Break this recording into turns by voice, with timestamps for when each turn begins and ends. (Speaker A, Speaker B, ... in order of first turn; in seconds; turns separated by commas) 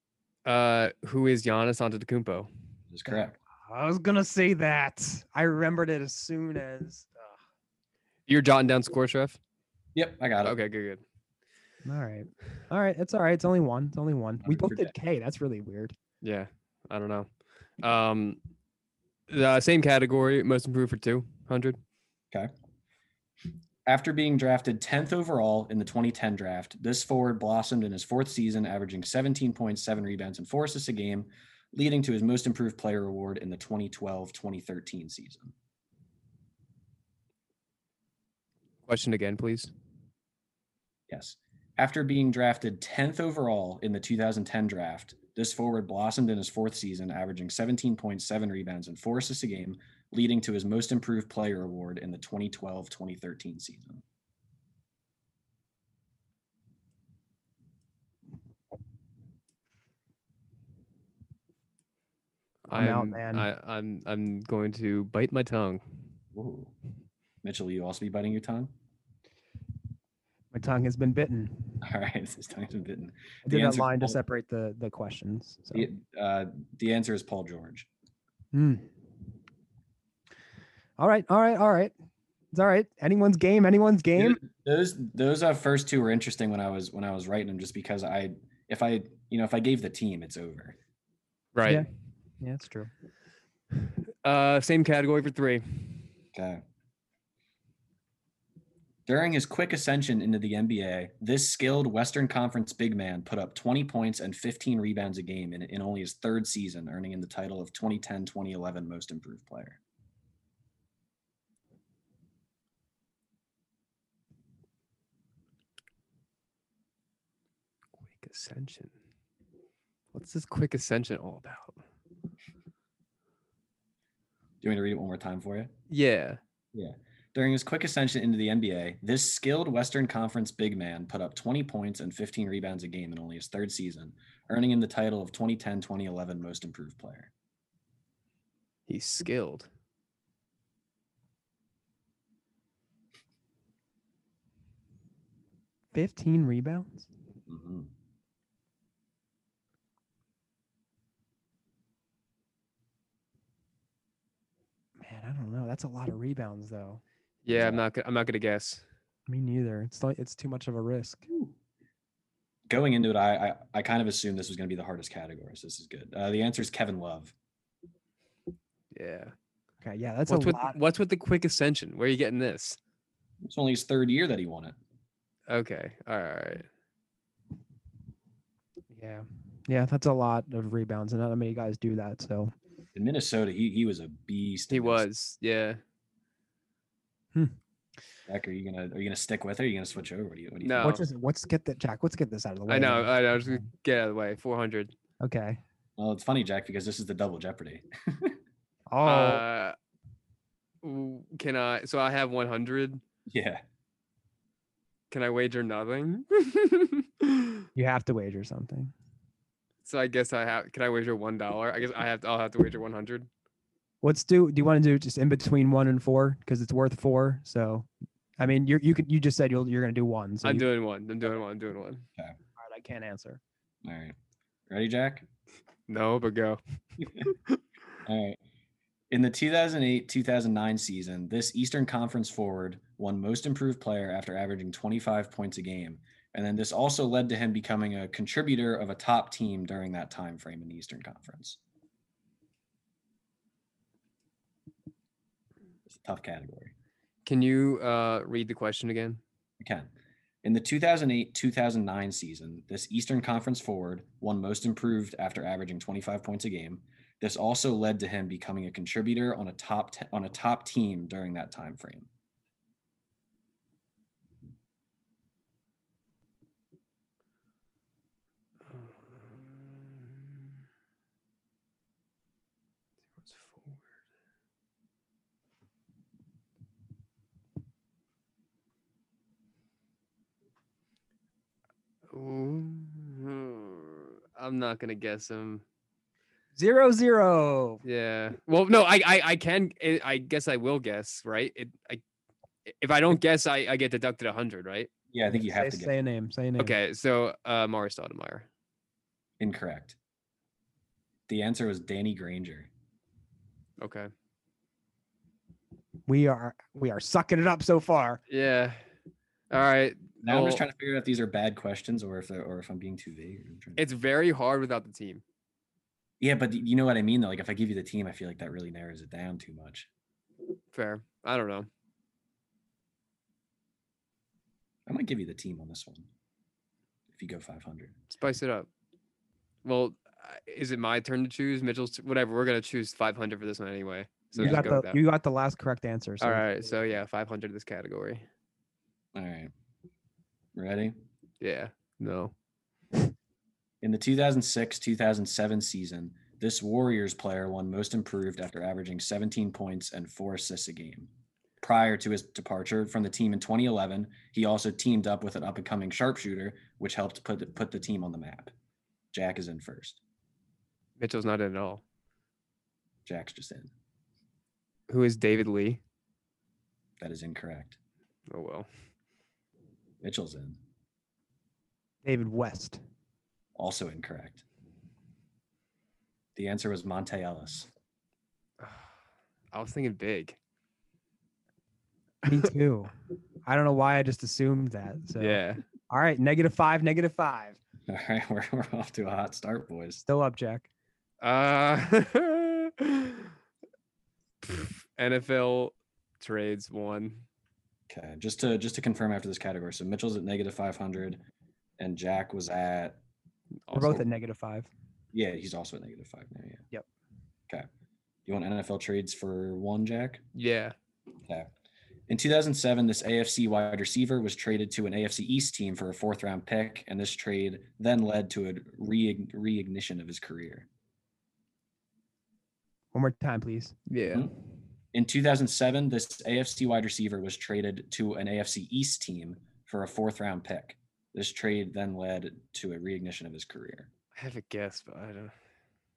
Speaker A: 0.5-2.5, Speaker B: 2.9-3.4, Speaker C: 3.1-7.3, Speaker A: 8.3-9.4, Speaker B: 9.9-10.6, Speaker A: 10.4-11.0, Speaker C: 11.8-15.9, Speaker B: 14.4-14.9, Speaker A: 16.2-17.3, Speaker A: 17.8-18.4, Speaker A: 19.3-21.8, Speaker B: 23.9-35.5, Speaker A: 38.9-39.7, Speaker B: 41.1-54.0, Speaker A: 62.7-65.8, Speaker C: 62.7-63.5, Speaker B: 66.3-66.7, Speaker B: 67.4-68.7, Speaker C: 70.5-71.8, Speaker B: 71.8-74.2, Speaker C: 73.5-75.9, Speaker B: 75.7-77.9, Speaker C: 78.5-78.9, Speaker C: 81.0-81.9, Speaker C: 82.5-84.4, Speaker B: 84.2-90.8, Speaker A: 91.5-91.8, Speaker C: 92.4-92.9, Speaker A: 94.2-96.1, Speaker B: 96.3-96.6, Speaker B: 99.1-109.8, Speaker A: 118.1-118.9, Speaker A: 120.1-121.8, Speaker B: 124.6-125.7, Speaker A: 125.9-126.4, Speaker B: 126.7-137.3, Speaker A: 138.9-139.7, Speaker C: 145.9-147.1, Speaker B: 147.5-147.9, Speaker C: 155.0-157.0, Speaker A: 157.4-158.8, Speaker B: 157.5-157.8, Speaker C: 159.3-161.3, Speaker B: 162.7-167.3, Speaker A: 168.9-169.3, Speaker C: 169.8-170.8, Speaker A: 170.3-172.8, Speaker B: 173.4-174.8, Speaker A: 175.5-176.7, Speaker C: 178.9-182.5, Speaker B: 182.9-185.1, Speaker A: 184.7-185.8, Speaker B: 188.3-191.0, Speaker A: 190.6-191.0, Speaker C: 190.8-193.6, Speaker A: 192.7-194.9, Speaker C: 195.2-195.6, Speaker B: 196.0-198.4, Speaker C: 198.9-199.4, Speaker A: 199.1-199.8, Speaker A: 200.8-203.0, Speaker B: 203.3-203.6, Speaker A: 205.1-207.7, Speaker C: 207.8-208.9, Speaker A: 209.8-213.3, Speaker C: 214.0-217.9, Speaker C: 218.4-220.7, Speaker A: 220.4-222.1, Speaker C: 222.6-223.4, Speaker B: 223.8-224.2, Speaker B: 224.7-225.3, Speaker A: 225.9-226.6, Speaker B: 227.0-227.3, Speaker A: 227.2-227.6, Speaker B: 228.1-228.4, Speaker B: 229.1-241.6, Speaker B: 245.9-246.7, Speaker A: 247.2-249.2, Speaker B: 249.6-249.9, Speaker B: 250.4-262.1, Speaker A: 268.7-270.5, Speaker A: 273.3-273.8, Speaker A: 282.1-285.6, Speaker C: 286.6-287.8, Speaker A: 287.9-292.0, Speaker A: 292.7-294.9, Speaker B: 295.1-295.9, Speaker C: 295.3-296.8, Speaker A: 296.6-298.5, Speaker B: 299.4-300.0, Speaker B: 301.3-302.7, Speaker A: 303.8-304.1, Speaker C: 306.1-308.2, Speaker A: 308.3-308.8, Speaker A: 309.5-310.6, Speaker B: 310.2-313.8, Speaker A: 313.8-315.2, Speaker B: 316.2-319.9, Speaker A: 320.7-321.7, Speaker B: 324.9-326.1, Speaker B: 327.1-327.9, Speaker A: 328.1-328.7, Speaker A: 329.6-335.0, Speaker B: 334.4-334.7, Speaker C: 334.4-336.4, Speaker A: 336.2-338.3, Speaker B: 339.1-339.5, Speaker B: 340.6-340.9, Speaker A: 341.4-342.3, Speaker B: 343.8-351.1, Speaker B: 351.6-358.5, Speaker B: 359.1-360.0, Speaker A: 361.0-361.8, Speaker B: 363.1-363.7, Speaker A: 364.9-365.8, Speaker B: 367.0-367.8, Speaker A: 368.3-368.7, Speaker B: 370.0-370.6, Speaker C: 372.0-372.8, Speaker B: 373.6-374.4, Speaker B: 376.4-377.7, Speaker A: 378.6-378.9, Speaker A: 379.5-380.4, Speaker C: 382.2-382.9, Speaker C: 383.5-387.6, Speaker A: 385.2-385.6, Speaker B: 387.9-390.0, Speaker C: 390.1-390.7, Speaker A: 391.2-393.3, Speaker A: 394.4-397.2, Speaker B: 397.9-401.2, Speaker B: 401.8-403.0, Speaker A: 403.7-404.0, Speaker C: 403.7-404.7, Speaker B: 405.1-406.6, Speaker B: 408.3-410.2, Speaker A: 410.4-410.8, Speaker B: 412.1-420.7, Speaker C: 422.9-423.8, Speaker A: 423.9-424.3, Speaker B: 424.9-433.9, Speaker A: 434.1-435.3